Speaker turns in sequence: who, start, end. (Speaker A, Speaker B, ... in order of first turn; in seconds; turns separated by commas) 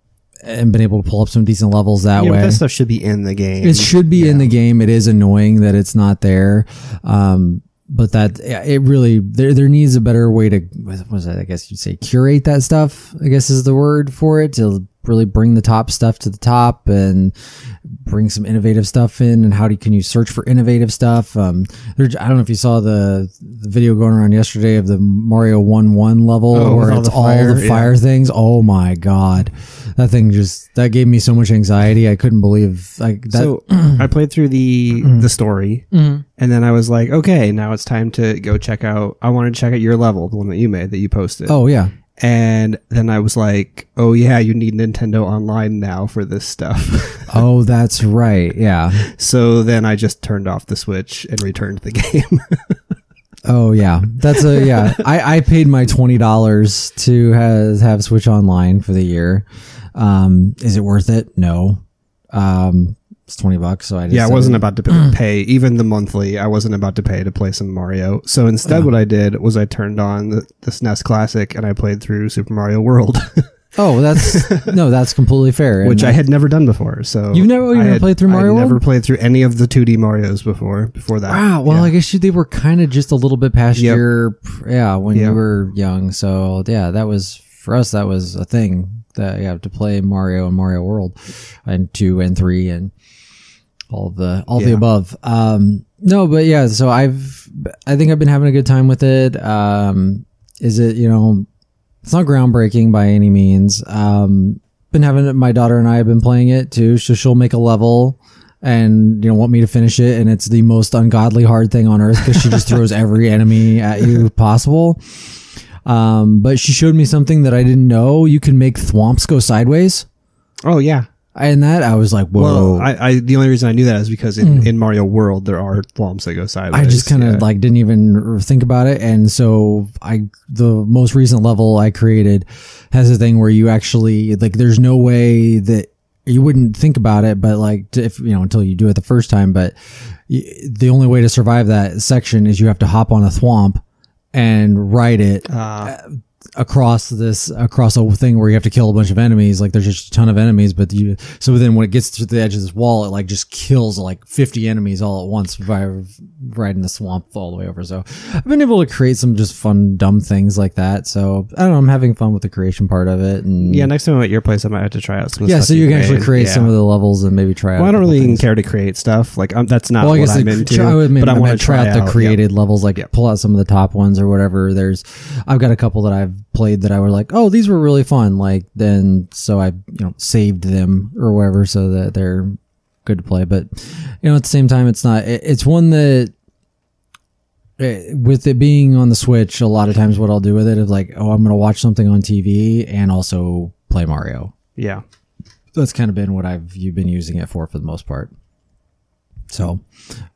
Speaker A: 0.4-2.6, Speaker B: 2.1-4.5, Speaker A: 3.6-17.3, Speaker A: 17.9-34.1, Speaker B: 26.5-27.9, Speaker B: 33.3-35.9, Speaker A: 35.0-35.3, Speaker A: 35.9-36.2, Speaker B: 36.4-41.6, Speaker A: 41.5-41.9, Speaker B: 42.2-47.4, Speaker A: 47.3-49.1, Speaker B: 49.0-52.7, Speaker A: 53.4-65.1, Speaker B: 54.6-54.9, Speaker B: 64.1-73.5, Speaker A: 73.8-76.2, Speaker B: 74.1-74.7, Speaker B: 75.8-81.9, Speaker A: 77.3-78.8, Speaker A: 81.3-92.9, Speaker B: 83.8-84.0, Speaker B: 85.1-85.4, Speaker A: 93.9-101.5, Speaker B: 94.5-94.8, Speaker A: 102.0-115.0, Speaker A: 115.8-120.0, Speaker B: 120.6-121.1, Speaker A: 121.3-122.9, Speaker B: 122.3-127.4, Speaker A: 124.4-124.7, Speaker A: 126.7-139.7, Speaker A: 140.3-143.8, Speaker A: 144.3-163.9, Speaker B: 145.5-145.9, Speaker B: 163.6-166.7, Speaker A: 165.4-168.4, Speaker B: 167.8-172.4, Speaker A: 170.0-186.3, Speaker A: 187.8-194.5, Speaker B: 194.8-195.0, Speaker A: 195.7-198.3, Speaker A: 199.5-199.8